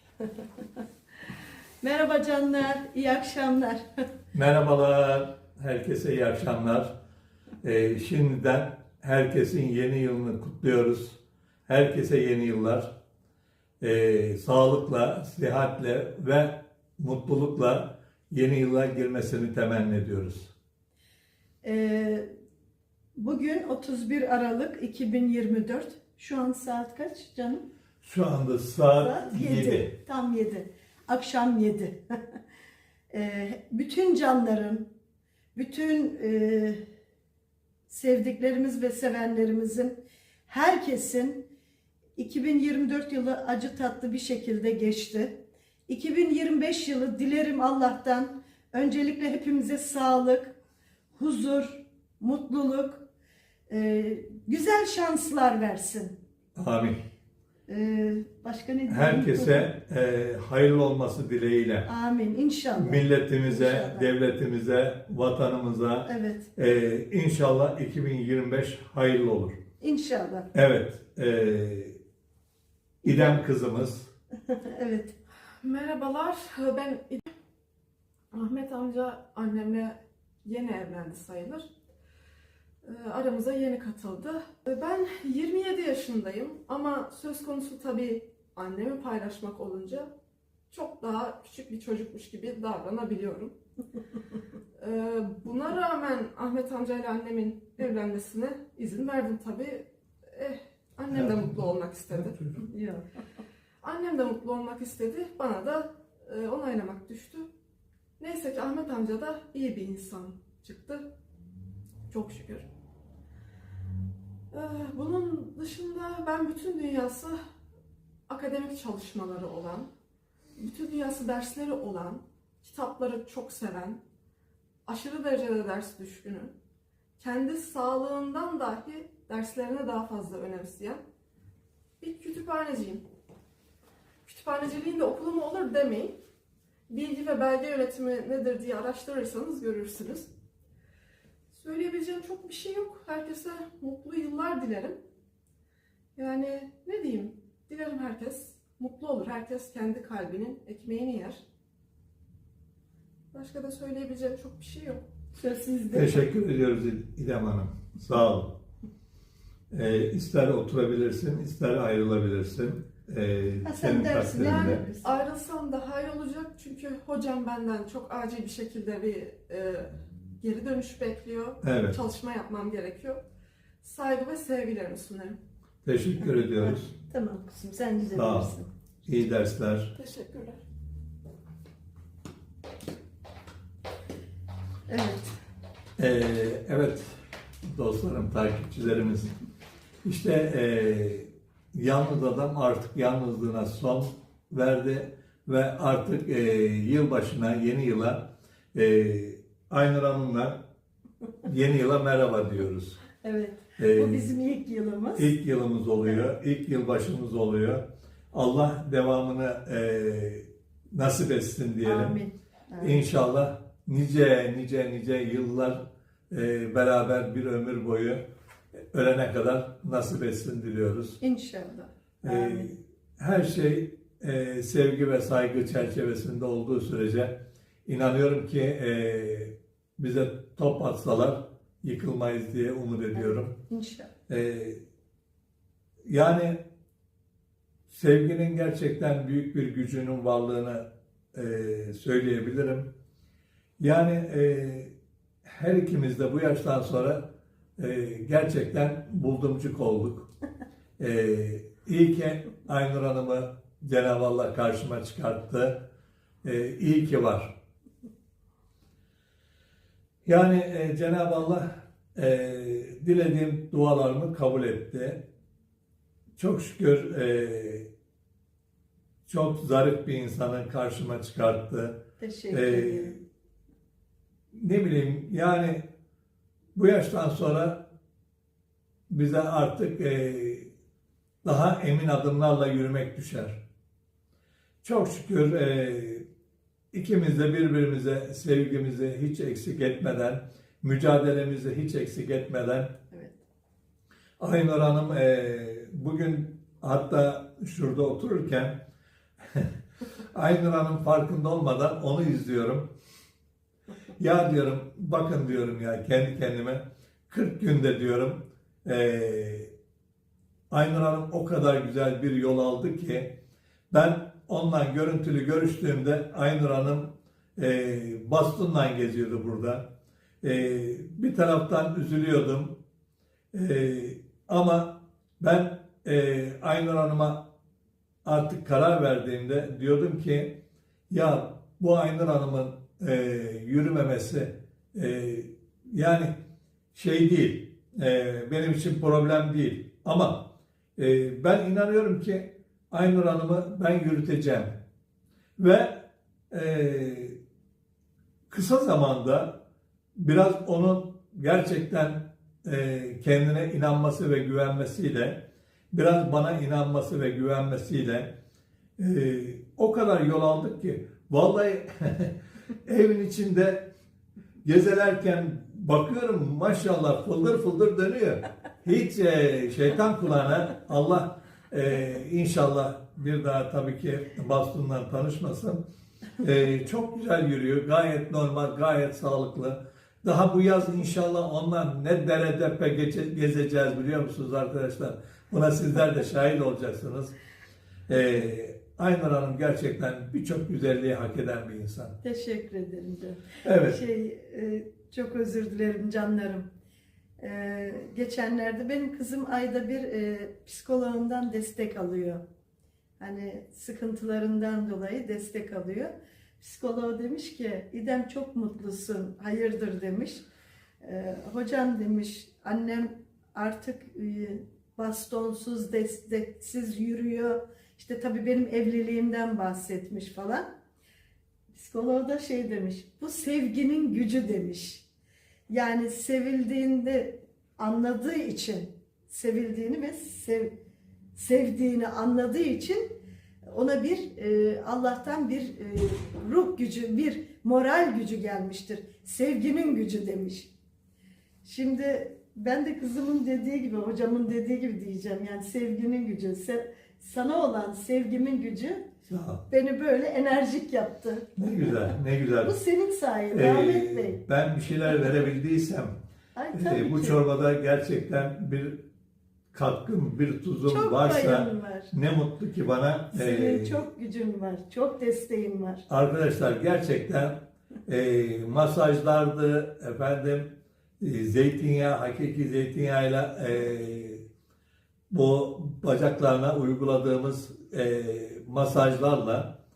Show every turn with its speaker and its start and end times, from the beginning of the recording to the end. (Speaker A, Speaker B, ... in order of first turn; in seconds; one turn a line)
Speaker A: 1.8-3.9
Speaker B: 4.3-6.9
Speaker B: 7.6-12.9
Speaker B: 13.8-20.5
Speaker A: 21.6-22.3
Speaker A: 23.2-27.6
Speaker B: 28.0-29.9
Speaker A: 29.0-32.0
Speaker A: 33.1-34.9
Speaker A: 35.5-36.8
Speaker A: 37.9-41.5
Speaker A: 42.2-45.4
Speaker A: 45.9-50.6
Speaker A: 51.2-53.0
Speaker A: 53.7-56.2
Speaker B: 56.6-57.0
Speaker A: 57.7-59.7
Speaker B: 58.9-61.9
Speaker A: 61.9-64.1
Speaker B: 62.8-69.6
Speaker A: 66.1-66.5
Speaker A: 69.8-70.5
Speaker B: 70.5-72.0
Speaker B: 73.0-74.1
Speaker A: 74.5-75.2
Speaker C: 75.5-77.3
Speaker C: 78.3-81.7
Speaker C: 82.8-90.1
Speaker C: 90.7-93.5
Speaker C: 94.8-102.4
Speaker B: 101.1-102.6
Speaker A: 102.6-103.0
Speaker C: 103.8-107.5
Speaker C: 108.2-111.1
Speaker C: 112.1-112.7
Speaker C: 114.5-117.4
Speaker C: 118.3-119.9
Speaker C: 120.6-124.0
Speaker C: 124.9-126.5
Speaker C: 127.2-131.0
Speaker C: 132.0-133.1
Speaker C: 134.2-136.2
Speaker C: 136.9-140.3
Speaker C: 141.5-145.0
Speaker C: 146.2-151.4
Speaker C: 153.3-155.0
Speaker A: 155.4-156.2
Speaker B: 155.9-158.6
Speaker B: 159.7-164.8
Speaker A: 163.6-165.2
Speaker C: 164.4-173.2
Speaker B: 171.6-172.0
Speaker C: 173.8-175.4
Speaker B: 175.8-176.9
Speaker A: 176.6-178.7
Speaker B: 178.1-178.5
Speaker B: 179.1-179.9
Speaker C: 180.0-180.6
Speaker A: 184.9-185.3
Speaker B: 186.0-189.4
Speaker B: 190.0-200.6
Speaker B: 201.4-203.0
Speaker A: 203.2-205.3
Speaker B: 203.8-204.3
Speaker B: 205.2-212.2
Speaker A: 211.8-213.0
Speaker B: 212.8-218.2
Speaker B: 218.8-221.2
Speaker A: 221.2-222.7
Speaker B: 222.2-233.6
Speaker A: 233.2-234.1
Speaker B: 234.3-234.8
Speaker B: 236.1-236.6
Speaker B: 237.9-242.9
Speaker B: 243.8-244.9
Speaker B: 245.4-250.3
Speaker B: 251.0-255.8
Speaker B: 256.4-257.6
Speaker B: 260.2-265.2
Speaker B: 266.4-267.9
Speaker B: 269.3-273.2
Speaker A: 272.2-273.1
Speaker B: 274.5-275.9
Speaker B: 276.8-277.9
Speaker B: 279.1-280.7
Speaker B: 281.4-283.6
Speaker B: 284.8-286.3
Speaker B: 286.9-292.9
Speaker A: 293.1-293.4
Speaker B: 294.4-298.8
Speaker B: 299.4-299.7
Speaker B: 300.3-302.9
Speaker B: 304.2-309.7
Speaker B: 310.7-313.4
Speaker B: 313.9-319.9
Speaker B: 320.4-322.8
Speaker B: 323.5-327.5
Speaker B: 328.2-330.6
Speaker B: 331.1-336.4
Speaker B: 336.9-344.8
Speaker B: 345.6-347.4
Speaker B: 348.5-349.6
Speaker B: 350.2-358.3
Speaker B: 359.0-363.9
Speaker B: 364.6-375.9
Speaker B: 376.4-387.4
Speaker B: 388.1-392.2
Speaker A: 392.2-396.7
Speaker B: 393.6-394.0
Speaker A: 397.4-402.4
Speaker A: 403.2-410.4
Speaker A: 411.0-420.7
Speaker A: 421.7-425.1
Speaker A: 425.7-430.8
Speaker A: 431.4-433.2
Speaker A: 433.7-440.7
Speaker A: 441.6-449.1
Speaker B: 449.3-449.6
Speaker A: 449.7-451.9
Speaker B: 451.6-452.8
Speaker A: 452.6-454.4
Speaker B: 453.5-456.2
Speaker A: 456.6-457.4
Speaker B: 456.7-459.0
Speaker B: 459.7-464.1
Speaker A: 460.9-462.1
Speaker A: 463.3-466.1
Speaker B: 466.1-474.4
Speaker B: 475.3-479.8